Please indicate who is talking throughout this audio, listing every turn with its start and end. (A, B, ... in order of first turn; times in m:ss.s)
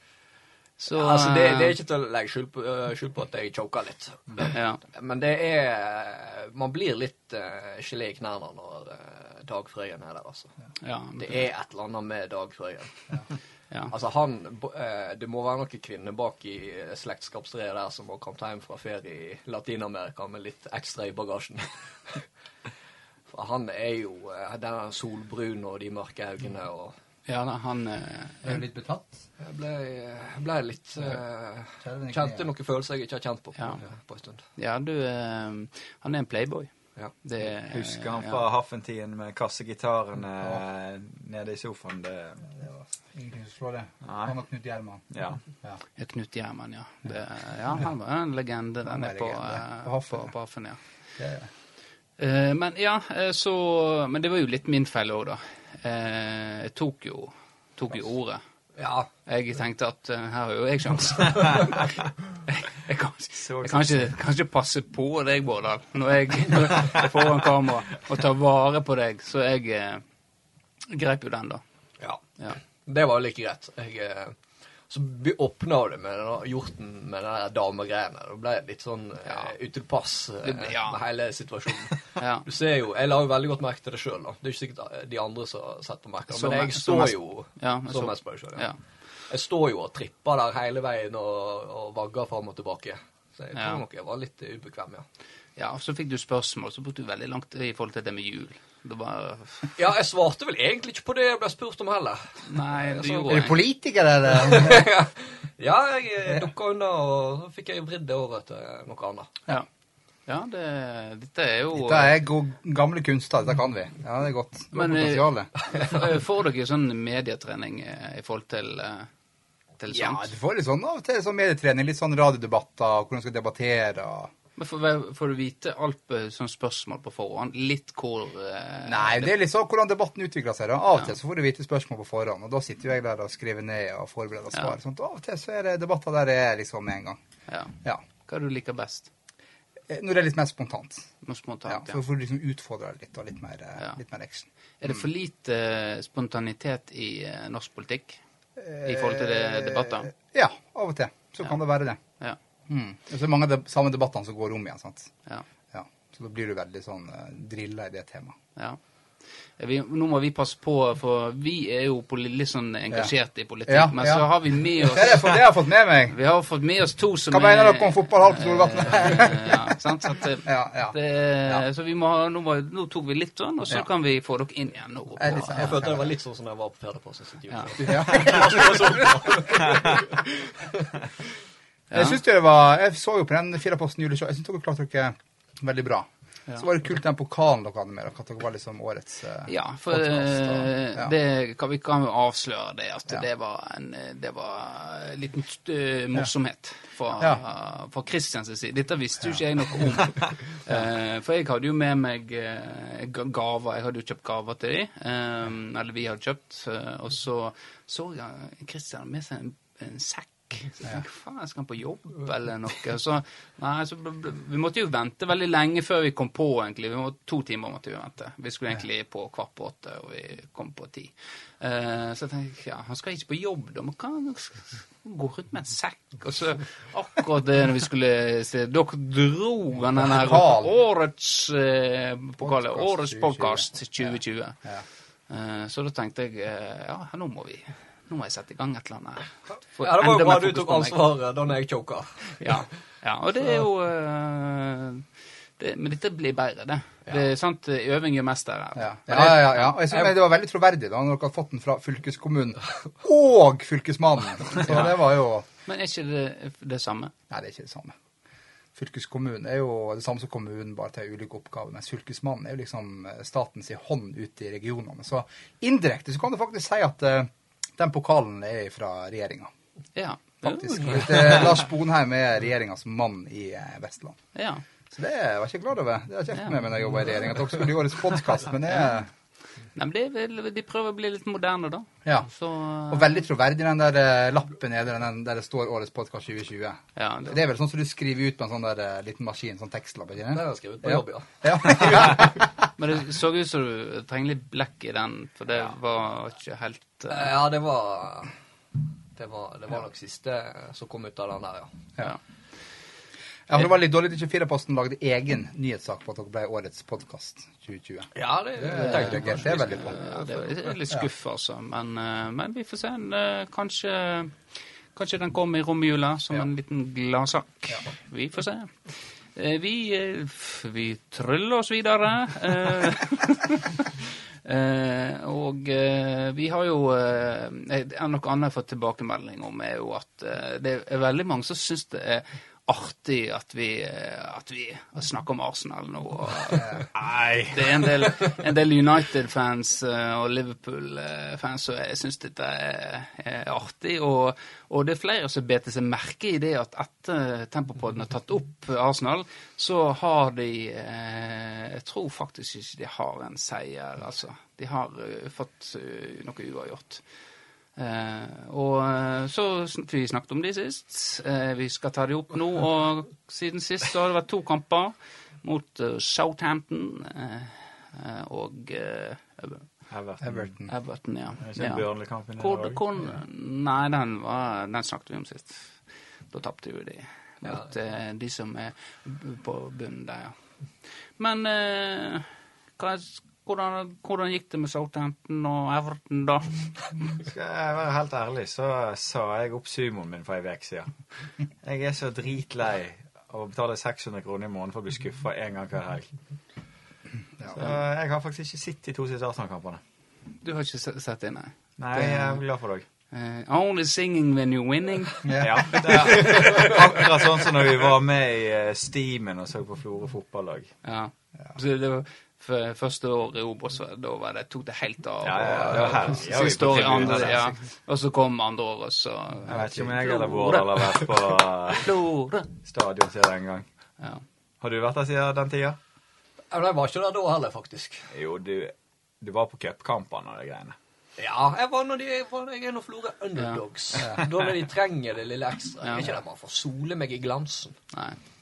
0:00.8-0:01.8 A
0:00.9-0:10.5 B
0:04.4-0:04.8 A
0:10.8-0:11.5 A
0:11.2-0:13.2 B
0:13.9-0:22.2 B
0:23.3-0:26.9 B
0:27.3-0:28.6 A
0:28.4-0:29.2 C
0:29.4-0:34.4 B
0:31.8-0:32.5 C
0:34.6-0:36.7 A
0:37.2-0:38.4 A
0:37.7-0:42.4 D
0:42.5-0:45.0 C
0:44.0-0:44.3 D
0:45.1-0:45.4 D
0:46.0-0:50.8 A
0:48.9-0:50.3 C
0:51.2-0:51.5 C
0:52.2-0:58.4 A
0:58.8-0:59.1 B
0:59.3-1:01.9 A
1:02.5-1:10.0 A
1:03.4-1:04.1 D
1:10.9-1:11.6 A
1:12.9-1:14.4 B
1:14.9-1:28.7 B
1:19.3-1:19.5 A
1:20.4-1:21.0 A
1:22.2-1:22.5 A
1:26.3-1:28.8 A
1:29.3-1:35.0 B
1:33.6-1:33.8 A
1:35.6-1:39.7 A
1:39.8-1:43.4 B
1:42.5-1:43.6 A
1:43.3-1:44.9 C
1:44.3-1:49.3 B
1:50.3-1:52.1 A
1:51.7-1:55.5 C
1:54.7-1:59.1 A
1:59.8-2:00.3 A
2:00.0-2:04.3 C
2:04.6-2:09.3 A
2:08.9-2:17.2 C
2:17.5-2:19.1 A
2:19.9-2:21.1 C
2:21.2-2:22.0 A
2:21.7-2:25.0 C
2:24.8-2:28.2 A
2:28.6-2:32.0 C
2:28.8-2:30.1 A
2:32.7-2:35.1 C
2:35.7-2:38.4 C
2:39.6-2:45.4 A
2:43.7-2:46.2 C
2:46.1-2:55.7 A
2:47.3-2:49.6 C
2:50.4-2:51.6 C
2:55.2-2:56.0 C
2:55.5-3:00.9 B
2:57.5-2:58.0 A
2:57.8-2:58.9 C
3:01.9-3:02.2 A
3:01.9-3:11.1 C
3:09.5-3:54.6 A
3:50.0-3:50.7 C
3:52.4-3:54.0 C
3:55.3-4:01.0 A
3:59.8-4:02.6 B
4:02.4-4:05.1 A
4:05.6-4:09.8 A
4:08.8-4:15.4 C
4:14.7-4:15.0 A
4:15.7-4:17.1 A
4:17.3-4:17.9 C
4:18.8-4:29.5 C
4:30.0-4:31.5 A
4:30.4-4:34.2 C
4:34.4-4:34.6 A
4:34.9-4:39.1 C
4:39.8-4:43.2 A
4:42.9-4:52.5 C
4:47.0-4:47.4 A
4:50.3-4:52.1 B
4:52.8-4:57.3 A
4:57.1-4:58.3 B
4:59.2-5:01.7 B
5:03.5-5:10.0 C
5:08.2-5:10.7 B
5:08.7-5:14.4 A
5:15.0-5:36.9 A
5:37.0-5:37.6 D
5:37.5-5:57.0 A
5:57.8-6:09.7 A
6:09.9-6:10.5 D
6:10.2-6:10.7 C
6:10.7-6:11.9 A
6:11.4-6:12.8 D
6:12.4-6:20.4 A
6:21.2-6:26.7 A
6:27.2-6:30.9 D
6:31.6-6:36.1 D
6:37.5-6:39.8 D
6:40.4-6:42.4 A
6:41.8-6:42.8 D
6:43.1-6:46.1 A
6:45.2-6:45.8 C
6:45.4-6:50.7 D
6:46.2-6:46.7 B
6:50.8-7:02.5 A
6:55.2-6:57.5 D
6:56.9-6:57.5 C
6:59.5-7:02.0 D
7:02.6-7:03.7 D
7:04.6-7:05.8 D
7:06.5-7:08.1 B
7:08.1-7:10.8 D
7:11.2-7:17.8 B
7:15.8-7:16.1 A
7:17.9-7:18.2 A